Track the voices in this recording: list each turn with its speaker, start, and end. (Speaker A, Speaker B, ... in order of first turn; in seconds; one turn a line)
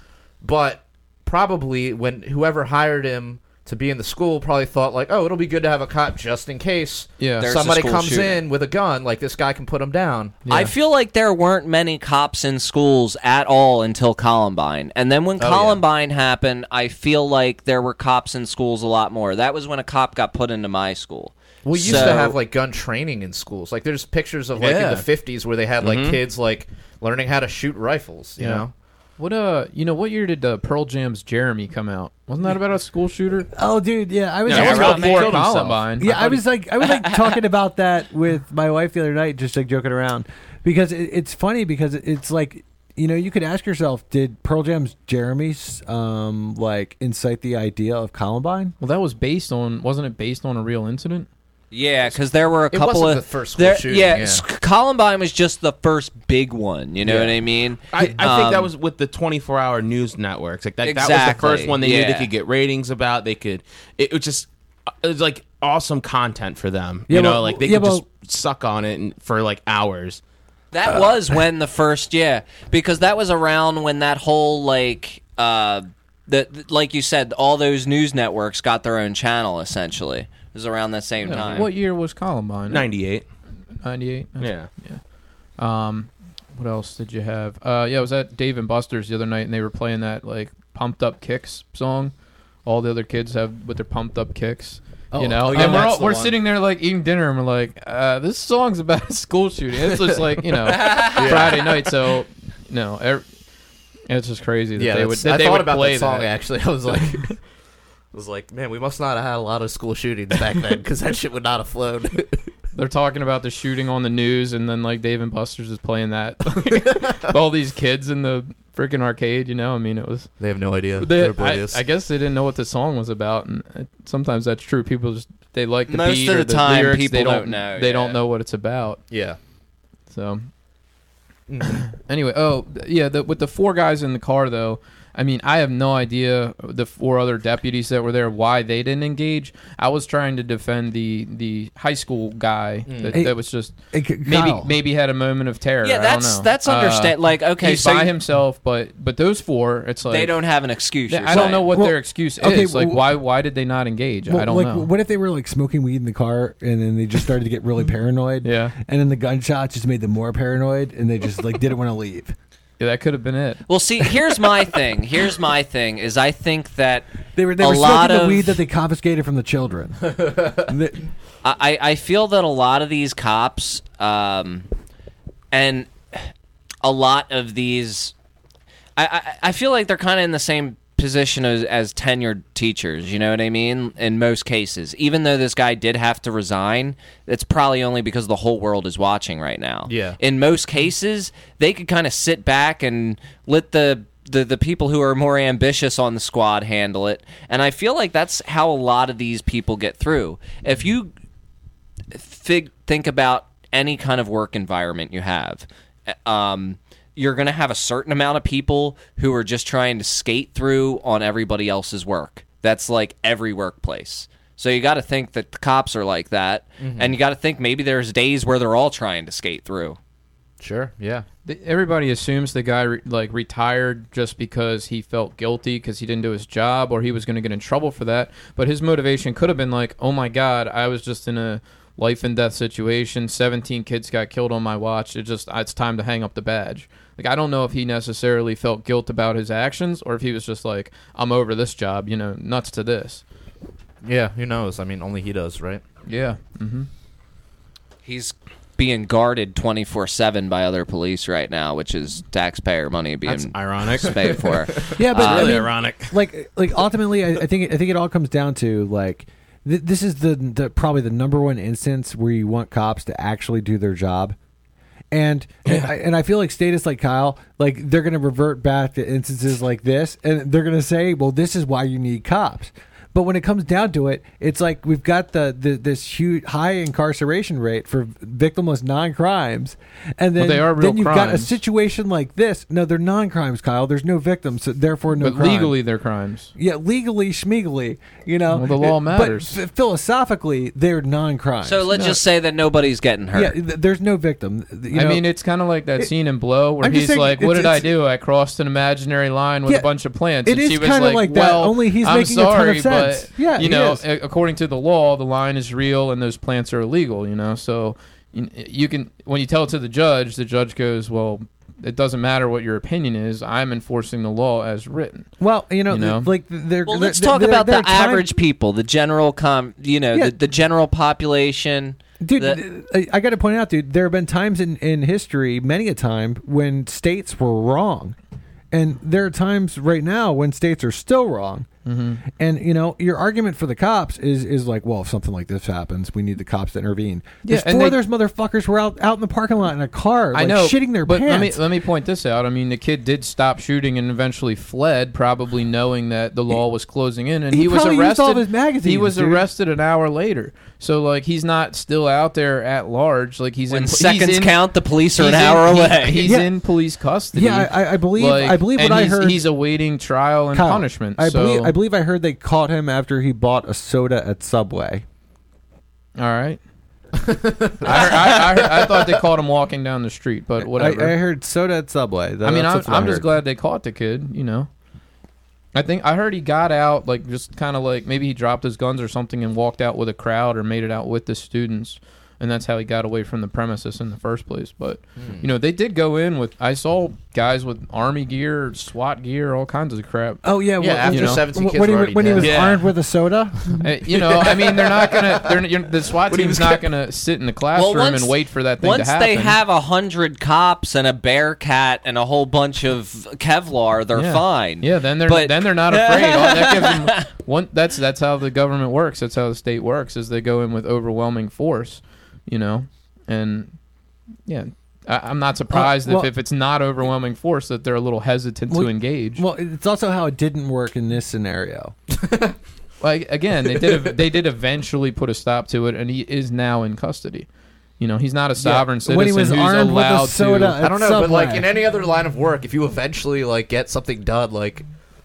Speaker A: 0.4-10.4
Speaker B: 7.2-7.5
Speaker C: 7.4-8.4
Speaker B: 10.4-10.7
Speaker C: 10.5-22.3
Speaker A: 15.4-15.8
Speaker A: 21.6-28.7
Speaker D: 21.9-22.2
Speaker D: 24.6-25.1
Speaker D: 25.8-26.2
Speaker B: 28.4-28.6
Speaker B: 29.2-33.5
Speaker E: 33.5-35.3
Speaker D: 34.5-36.0
Speaker B: 34.5-36.4
Speaker E: 36.0-48.7
Speaker C: 36.8-37.4
Speaker B: 48.8-51.3
Speaker C: 51.7-58.7
Speaker A: 52.7-54.4
Speaker D: 57.9-70.2
Speaker C: 60.8-62.3
Speaker E: 67.1-68.0
Speaker C: 70.7-81.7
Speaker B: 81.2-82.8
Speaker D: 81.3-81.7
Speaker D: 82.7-83.2
Speaker B: 83.8-103.4
Speaker D: 84.4-84.7
Speaker A: 95.1-96.4
Speaker A: 100.7-101.8
Speaker C: 100.7-101.5
Speaker B: 104.1-107.3
Speaker A: 104.8-107.5
Speaker A: 108.1-112.5
Speaker B: 112.7-120.4
Speaker A: 120.4-121.8
Speaker B: 121.0-129.1
Speaker C: 125.9-128.2
Speaker A: 129.1-129.4
Speaker B: 130.1-130.5
Speaker A: 131.5-131.8
Speaker B: 131.7-150.6
Speaker A: 142.9-143.2
Speaker E: 143.1-144.7
Speaker C: 145.8-148.1
Speaker C: 150.1-151.7
Speaker B: 151.1-154.9
Speaker E: 151.3-153.2
Speaker E: 154.3-162.3
Speaker B: 158.4-158.7
Speaker B: 162.8-163.6
Speaker C: 163.7-167.1
Speaker E: 167.3-171.1
Speaker C: 167.6-168.6
Speaker A: 170.2-170.6
Speaker C: 171.4-174.7
Speaker C: 175.5-178.1
Speaker C: 179.0-201.1
Speaker A: 189.9-190.2
Speaker C: 202.1-220.0
Speaker A: 216.8-217.1
Speaker A: 220.6-221.2
Speaker B: 221.4-243.2
Speaker A: 244.0-245.8
Speaker B: 246.1-246.9
Speaker C: 248.0-255.7
Speaker D: 253.2-254.4
Speaker A: 254.0-255.0
Speaker E: 255.0-264.4
Speaker D: 255.1-256.2
Speaker E: 265.1-285.8
Speaker B: 280.4-281.6
Speaker B: 285.2-286.5
Speaker E: 286.5-291.9
Speaker B: 288.5-289.6
Speaker C: 291.6-293.6
Speaker B: 291.9-292.2
Speaker E: 293.3-295.3
Speaker B: 294.9-315.3
Speaker E: 296.8-297.9
Speaker E: 299.6-299.9
Speaker E: 300.4-304.0
Speaker E: 315.4-318.3
Speaker B: 315.9-316.3
Speaker C: 316.9-322.6
Speaker E: 322.2-328.1
Speaker E: 328.7-331.7
Speaker B: 331.9-332.2
Speaker E: 332.2-341.6
Speaker B: 337.4-338.0
Speaker B: 340.3-361.8
Speaker E: 347.5-349.4
Speaker C: 353.7-356.3
Speaker E: 356.2-356.5
Speaker E: 357.3-359.5
Speaker E: 360.5-365.0
Speaker B: 366.2-366.6
Speaker A: 367.2-369.1
Speaker B: 367.8-371.2
Speaker E: 370.6-373.4
Speaker B: 372.4-374.7
Speaker B: 375.7-391.4
Speaker A: 385.2-385.4
Speaker E: 390.4-393.9
Speaker A: 390.8-392.9
Speaker B: 392.3-392.9
Speaker A: 393.6-395.6
Speaker B: 393.8-399.6
Speaker A: 396.3-396.8
Speaker C: 397.7-407.3
Speaker B: 404.1-413.8
Speaker B: 414.4-419.4
Speaker E: 415.7-416.3
Speaker E: 418.7-421.9
Speaker B: 423.0-430.8
Speaker E: 428.6-431.7
Speaker A: 430.8-434.9